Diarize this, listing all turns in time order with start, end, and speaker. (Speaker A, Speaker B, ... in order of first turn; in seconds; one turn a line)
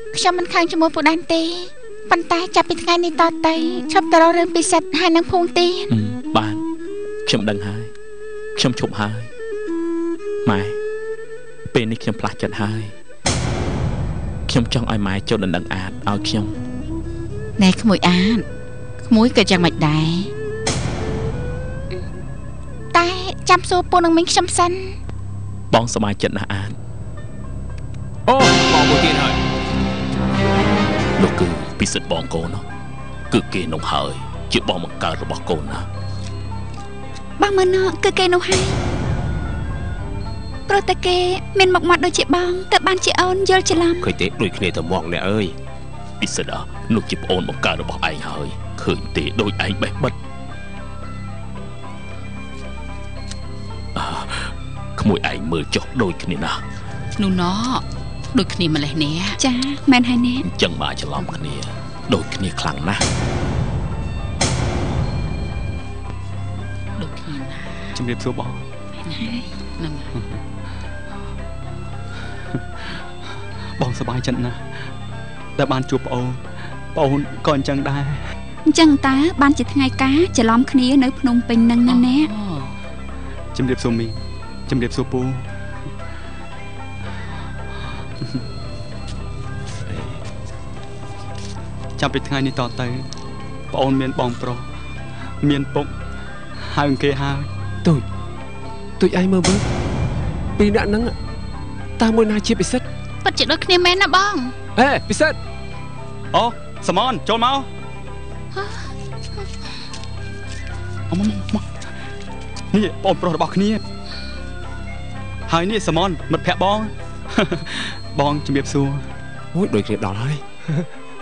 Speaker A: 0.1-5.9
Speaker B: 5.9-6.6
Speaker B: 7.2-7.9
Speaker B: 8.6-9.3
Speaker B: 10.4-10.8
Speaker B: 11.7-12.9
Speaker B: 14.5-16.5
Speaker A: 17.6-18.4
Speaker A: 19.0-20.3
Speaker A: 22.9-25.0
Speaker B: 25.7-26.8
Speaker C: 28.2-29.4
Speaker B: 31.2-32.6
Speaker B: 33.3-35.9
Speaker D: 37.4-38.8
Speaker D: 40.7-44.1
Speaker C: 44.0-45.5
Speaker B: 46.2-50.1
Speaker B: 53.9-56.6
Speaker E: 57.2-59.4
Speaker D: 59.4-60.5
Speaker B: 60.5-63.0
Speaker E: 61.1-61.5
Speaker E: 67.0-67.9
Speaker F: 67.9-68.6
Speaker E: 69.0-70.1
Speaker D: 69.2-69.5
Speaker F: 73.8-74.6
Speaker F: 75.6-76.4
Speaker F: 76.9-78.2
Speaker D: 78.7-82.3
Speaker E: 81.9-82.8
Speaker F: 83.5-85.5
Speaker C: 89.9-90.2
Speaker F: 92.0-93.0
Speaker F: 93.7-94.7
Speaker F: 95.4-95.9
Speaker F: 96.7-97.5
Speaker C: 99.0-99.7
Speaker C: 100.6-101.2
Speaker C: 102.0-102.9
Speaker E: 103.2-104.5
Speaker C: 104.8-105.4
Speaker F: 106.3-107.7
Speaker E: 108.5-108.9
Speaker F: 111.1-111.7
Speaker F: 112.7-113.8
Speaker F: 115.5-119.0
Speaker C: 119.5-120.9